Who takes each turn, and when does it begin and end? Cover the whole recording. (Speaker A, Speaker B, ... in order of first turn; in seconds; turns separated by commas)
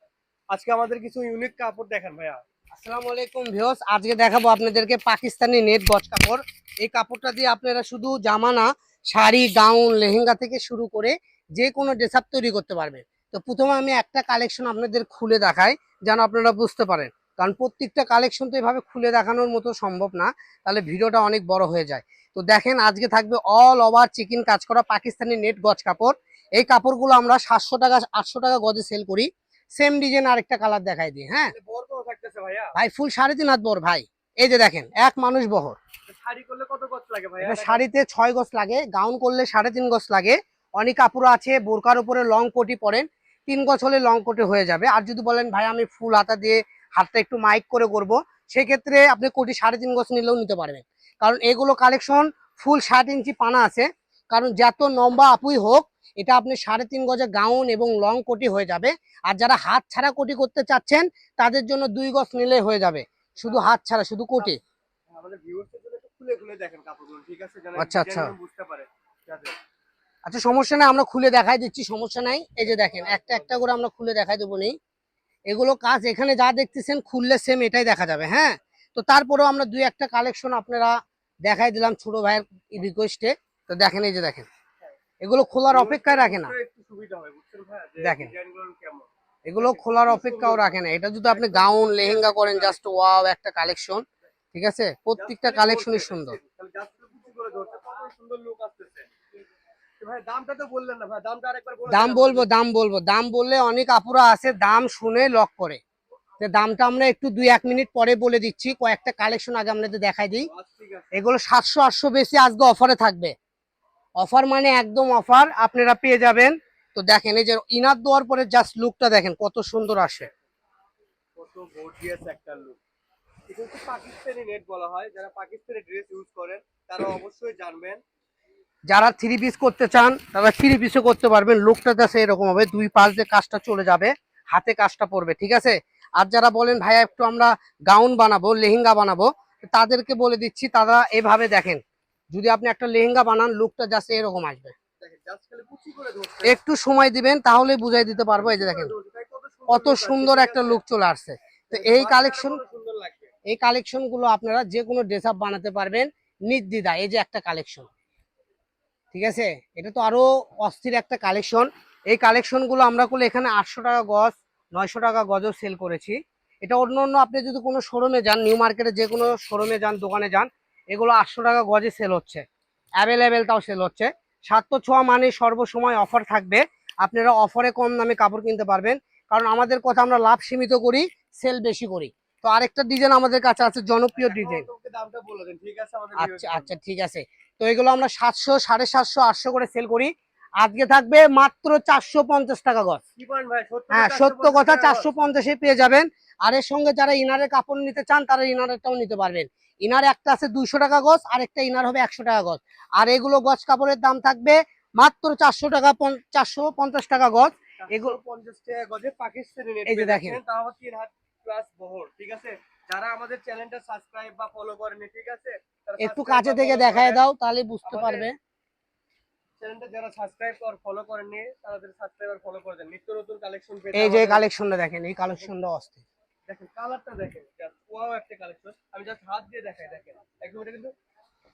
Speaker A: 0.5-2.4, Speaker B: 2.7-31.5, Speaker A: 31.5-32.7, Speaker B: 32.8-35.8, Speaker A: 36.1-37.8, Speaker B: 37.4-64.6, Speaker A: 63.4-63.7, Speaker A: 65.1-69.5, Speaker B: 67.8-68.3, Speaker B: 70.2-74.8, Speaker A: 72.7-73.6, Speaker B: 75.5-80.9, Speaker B: 81.5-84.5, Speaker B: 85.2-86.5, Speaker A: 85.7-92.8, Speaker B: 88.0-88.3, Speaker B: 89.5-96.4, Speaker A: 95.2-99.1, Speaker A: 100.0-102.5, Speaker B: 101.9-105.8, Speaker B: 106.4-110.5, Speaker A: 110.5-111.1, Speaker B: 111.1-113.3, Speaker B: 114.2-120.3, Speaker A: 121.4-122.8, Speaker A: 123.5-128.0, Speaker B: 128.9-141.8, Speaker B: 142.3-144.7, Speaker A: 145.0-146.6, Speaker B: 146.4-148.9, Speaker A: 148.3-150.8, Speaker B: 149.7-152.6, Speaker A: 151.7-153.3, Speaker B: 153.5-157.9, Speaker B: 159.1-172.4, Speaker B: 173.0-184.7, Speaker A: 184.1-186.7, Speaker B: 186.2-193.0, Speaker A: 193.2-195.1, Speaker B: 193.9-208.2, Speaker A: 207.8-217.2, Speaker B: 209.9-210.4, Speaker B: 216.0-218.4, Speaker A: 217.8-218.3, Speaker A: 219.6-224.4, Speaker B: 223.9-226.0, Speaker A: 226.5-230.9